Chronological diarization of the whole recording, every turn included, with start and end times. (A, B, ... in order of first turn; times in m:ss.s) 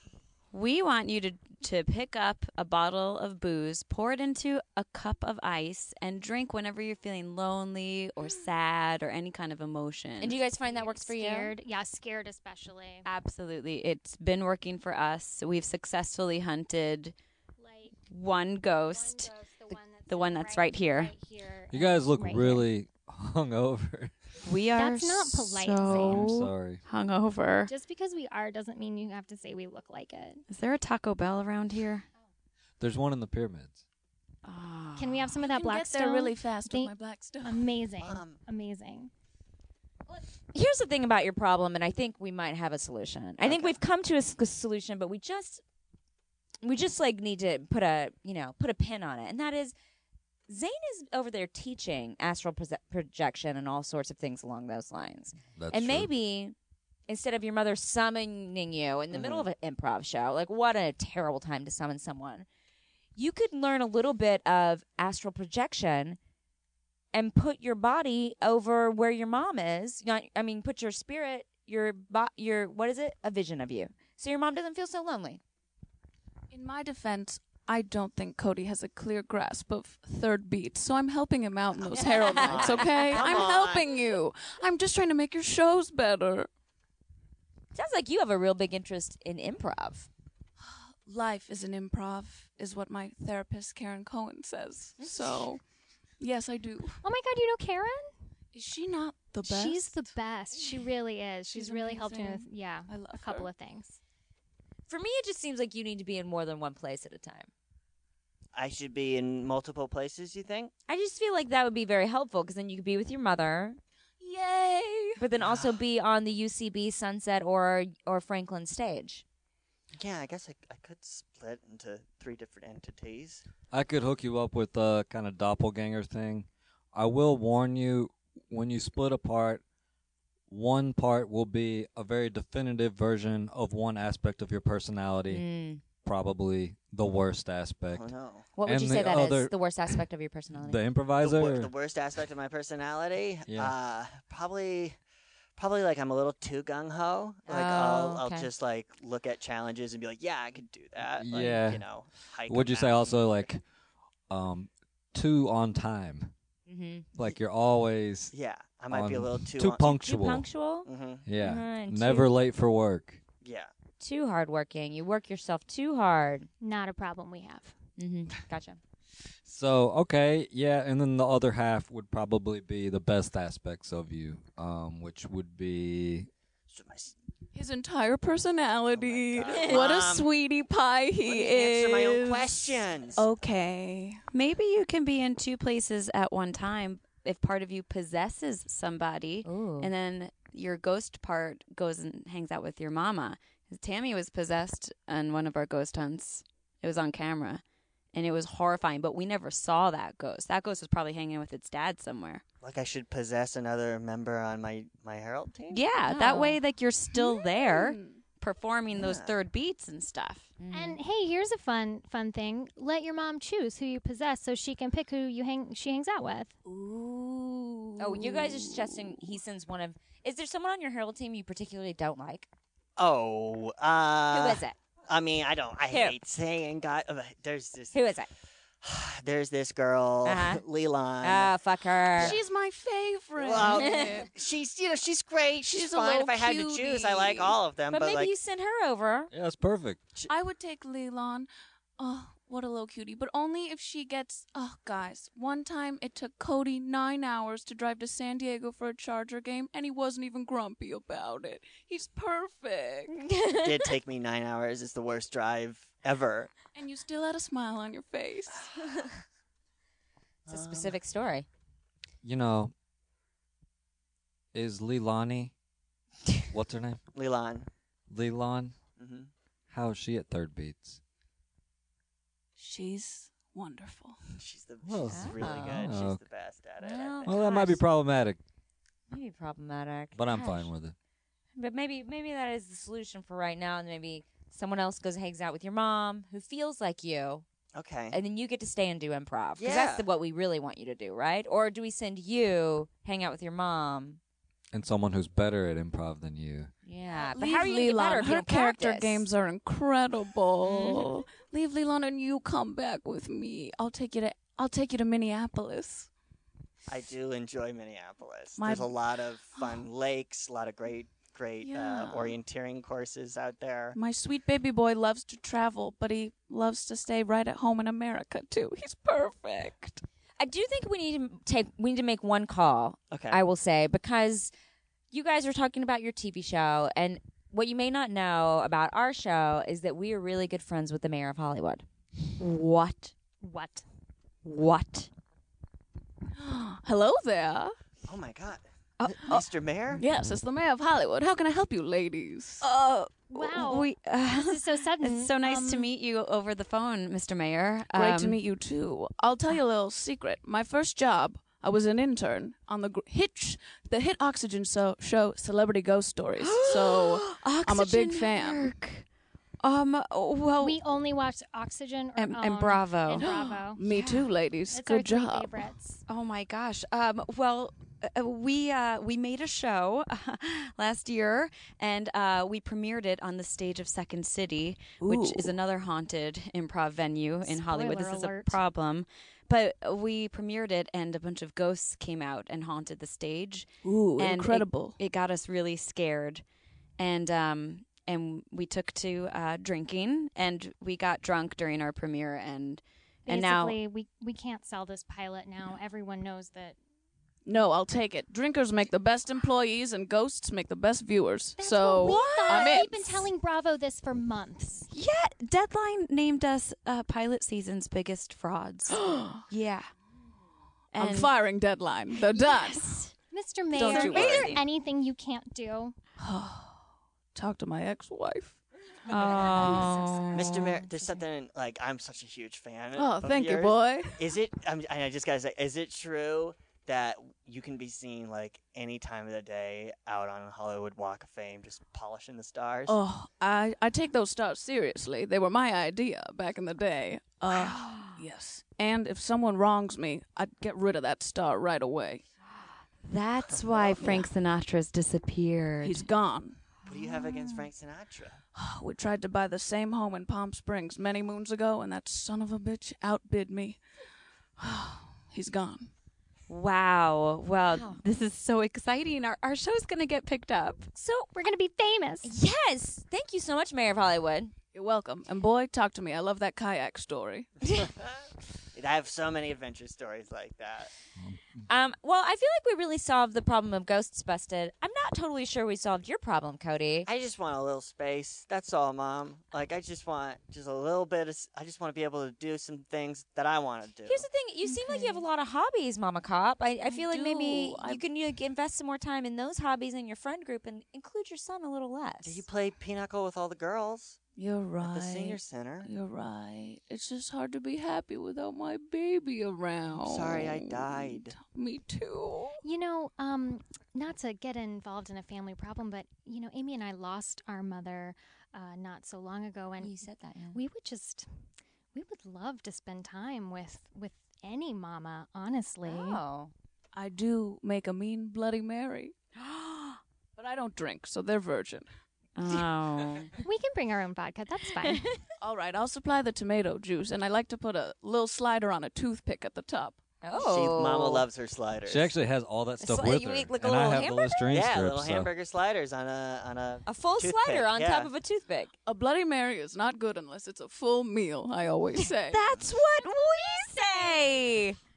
0:00.5-0:10.4 A
0:10.2-0:11.5 B
0:10.5-0:13.0 C
0:13.0-0:17.1 A
0:17.6-0:18.0 C
0:18.1-0:19.3 A
0:18.9-0:22.7 C
0:20.1-0:21.1 A
0:21.7-0:24.1 D
0:24.4-0:27.7 A
0:24.7-0:26.3 C
0:25.9-0:26.8 D
0:27.6-0:30.4 C
0:30.5-0:32.1 A
0:32.8-0:33.8 D
0:34.4-0:35.4 A
0:35.0-0:39.1 C
0:35.4-0:37.8 E
0:38.0-0:38.4 F
0:40.1-0:45.6 B
0:43.4-0:43.8 F
0:46.6-0:49.7 B
0:50.5-0:56.5 B
0:55.6-0:56.1 D
0:57.1-1:02.4 B
0:59.1-0:59.5 F
1:03.2-1:06.2 B
1:07.1-1:15.4 B
1:16.5-1:26.5 E
1:21.8-1:24.0 F
1:22.0-1:23.4 B
1:27.7-1:30.1 B
1:30.6-1:35.6 E
1:35.0-1:35.4 B
1:36.2-1:37.0 E
1:37.0-1:38.1 C
1:38.5-1:40.8 E
1:39.4-1:44.0 C
1:41.5-1:43.5 E
1:44.9-1:47.5 B
1:48.5-1:50.7 F
1:50.9-1:53.8 B
1:54.2-1:55.2 E
1:55.2-1:59.2 B
1:55.4-1:55.8 F
1:59.9-2:03.4 F
2:03.7-2:09.6 D
2:10.5-2:15.4 D
2:15.3-2:15.8 B
2:16.0-2:18.1 D
2:17.9-2:18.5 F
2:18.6-2:20.8 B
2:18.6-2:19.9 D
2:20.5-2:21.7 D
2:21.2-2:25.0 F
2:23.5-2:23.7 D
2:25.6-2:33.5 F
2:27.5-2:28.5 B
2:31.2-2:31.8 D
2:32.5-2:33.6 D
2:34.3-2:36.3 D
2:36.7-2:37.1 B
2:37.1-2:38.3 D
2:38.3-2:40.0 F
2:38.9-2:40.4 D
2:39.9-2:42.3 B
2:40.8-2:41.2 F
2:41.2-2:43.2 D
2:43.4-2:43.7 F
2:44.0-2:46.5 B
2:46.6-2:47.8 C
2:48.0-2:48.8 B
2:49.4-2:56.3 D
2:56.7-2:57.1 F
2:57.5-3:01.5 E
2:58.9-3:00.3 F
2:59.5-2:59.8 B
3:01.2-3:03.2 F
3:01.4-3:02.5 A
3:03.1-3:04.2 E
3:04.3-3:17.6 A
3:09.4-3:09.9 B
3:18.1-3:22.4 A
3:22.6-3:25.8 F
3:25.7-3:30.5 A
3:26.0-3:26.6 B
3:27.1-3:28.2 E
3:28.9-3:29.4 F
3:30.6-3:31.0 B
3:30.7-3:36.5 C
3:36.6-3:39.2 E
3:38.0-3:42.5 B
3:43.0-3:48.0 F
3:44.3-3:44.8 B
3:45.9-3:46.2 B
3:47.9-3:48.3 B
3:48.8-3:51.5 F
3:50.2-3:50.6 B
3:51.2-3:52.4 B
3:52.2-3:52.4 F
3:52.2-3:54.3 E
3:53.4-3:58.3 F
3:53.6-3:54.2 B
3:55.6-3:57.6 E
3:57.9-3:59.3 B
3:59.3-4:00.0 D
4:00.3-4:13.1 E
4:13.1-4:13.8 B
4:13.6-4:16.5 F
4:16.7-4:18.7 E
4:20.5-4:21.0 F
4:20.5-4:21.4 B
4:22.2-4:22.7 D
4:24.5-4:25.5 D
4:26.5-4:27.0 D
4:27.1-4:27.7 F
4:28.1-4:28.8 D
4:29.0-4:29.3 F
4:29.7-4:31.0 D
4:32.6-4:34.2 E
4:34.4-4:37.8 F
4:34.8-4:36.2 D
4:35.1-4:35.9 B
4:36.8-4:37.6 B
4:37.2-4:38.4 D
4:39.1-4:40.7 B
4:40.1-4:40.9 D
4:41.6-4:47.4 B
4:47.7-4:48.2 F
4:48.1-4:54.2 B
4:49.6-4:50.1 F
4:54.7-4:56.7 D
4:56.8-4:59.2 B
4:57.1-5:06.1 E
5:00.6-5:01.1 B
5:06.9-5:14.0 F
5:08.6-5:09.0 E
5:09.5-5:09.8 E
5:11.6-5:12.4 E
5:13.9-5:20.0 E
5:20.4-5:24.5 B
5:23.1-5:23.4 F
5:25.1-5:31.8 B
5:32.4-5:33.1 A
5:33.4-5:33.8 C
5:34.4-5:35.1 A
5:36.4-5:37.7 E
5:38.0-5:40.0 F
5:39.0-5:39.4 A
5:39.2-5:42.7 E
5:42.6-5:48.4 A
5:43.3-5:45.9 C
5:47.9-5:58.7 E
5:56.4-5:59.0 A
5:59.6-6:00.8 A
6:00.6-6:03.8 C
6:02.2-6:04.3 A
6:03.2-6:05.7 E
6:04.7-6:06.0 C
6:06.1-6:26.4 A
6:15.0-6:15.5 E
6:17.4-6:18.6 C
6:23.8-6:25.0 E
6:27.0-6:33.8 A
6:33.2-6:36.8 C
6:37.4-6:43.3 E
6:41.6-6:44.9 C
6:42.0-6:42.8 A
6:44.9-6:49.9 A
6:48.9-6:49.4 E
6:50.9-6:51.3 A
6:51.0-6:53.0 E
6:52.2-6:53.1 A
6:53.3-6:55.9 C
6:53.7-6:54.6 A
6:53.7-6:54.6 E
6:54.2-6:54.5 B
6:56.2-6:58.6 E
6:59.1-7:00.4 A
6:59.2-6:59.9 C
6:59.3-7:00.2 B
6:59.4-7:00.5 E
7:00.3-7:13.0 F
7:00.5-7:01.0 C
7:03.0-7:04.2 E
7:12.9-7:22.2 E
7:17.5-7:18.1 B
7:23.0-7:26.1 A
7:23.9-7:24.3 E
7:25.8-7:26.6 E
7:26.8-7:28.4 F
7:28.5-7:33.8 E
7:34.6-7:35.9 E
7:36.5-7:40.9 A
7:37.7-7:38.0 B
7:41.0-7:41.2 B
7:41.2-7:42.3 C
7:42.2-7:44.5 B
7:44.7-7:47.5 E
7:47.7-7:50.9 F
7:51.7-7:57.1 B
7:57.0-8:04.3 F
8:04.0-8:12.4 B
8:04.7-8:05.1 E
8:06.8-8:08.0 E
8:12.2-8:14.2 F
8:14.4-8:22.6 E
8:14.8-8:15.9 F
8:20.0-8:21.4 F
8:22.6-8:30.0 C
8:29.8-8:30.6 B
8:30.5-8:31.3 C
8:31.9-8:36.2 C
8:35.8-8:36.5 B
8:36.9-8:39.1 E
8:39.4-8:40.0 A
8:40.4-8:41.8 E
8:42.4-8:43.3 A
8:43.4-8:45.0 C
8:45.4-8:50.0 E
8:50.2-8:51.2 B
8:50.3-8:52.1 F
8:51.8-8:55.3 D
8:52.8-8:54.5 B
8:54.5-8:58.1 F
8:56.8-8:58.7 B
8:58.8-9:02.4 E
9:02.0-9:04.8 B